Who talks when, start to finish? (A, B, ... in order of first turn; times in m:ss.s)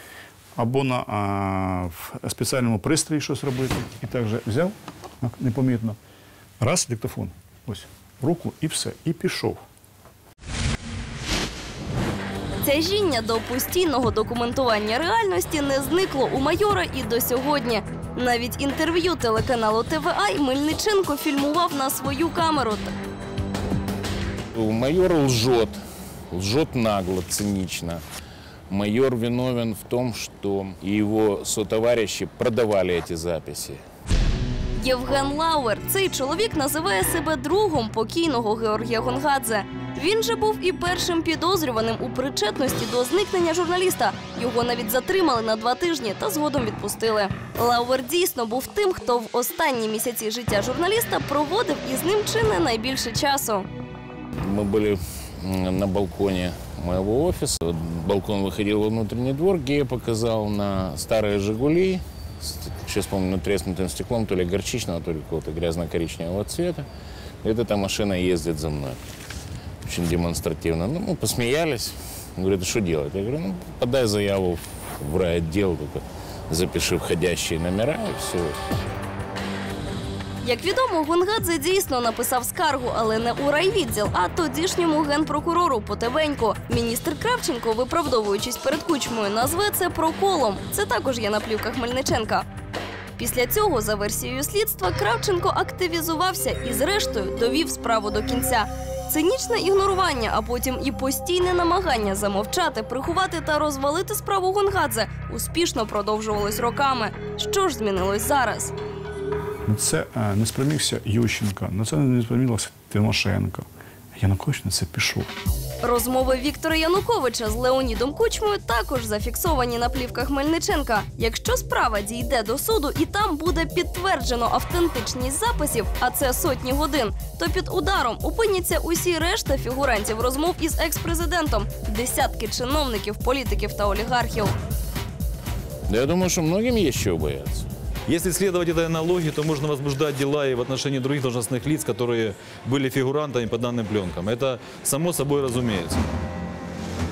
0:00.6-0:06.0 A
0:06.6-0:09.6 A
0:12.6-0:22.9 B
0:24.5-0:25.8 C
0:26.3-0:28.0 C
0:28.7-0:33.8 C
0:34.8-0:53.7 B
0:54.4-1:06.9 C
1:07.4-1:09.0 C
1:09.8-1:18.6 C
1:20.4-1:32.5 B
1:33.2-1:48.7 B
1:49.6-1:55.3 A
1:55.8-2:14.6 B
2:15.9-2:17.6 C
2:18.1-2:26.0 D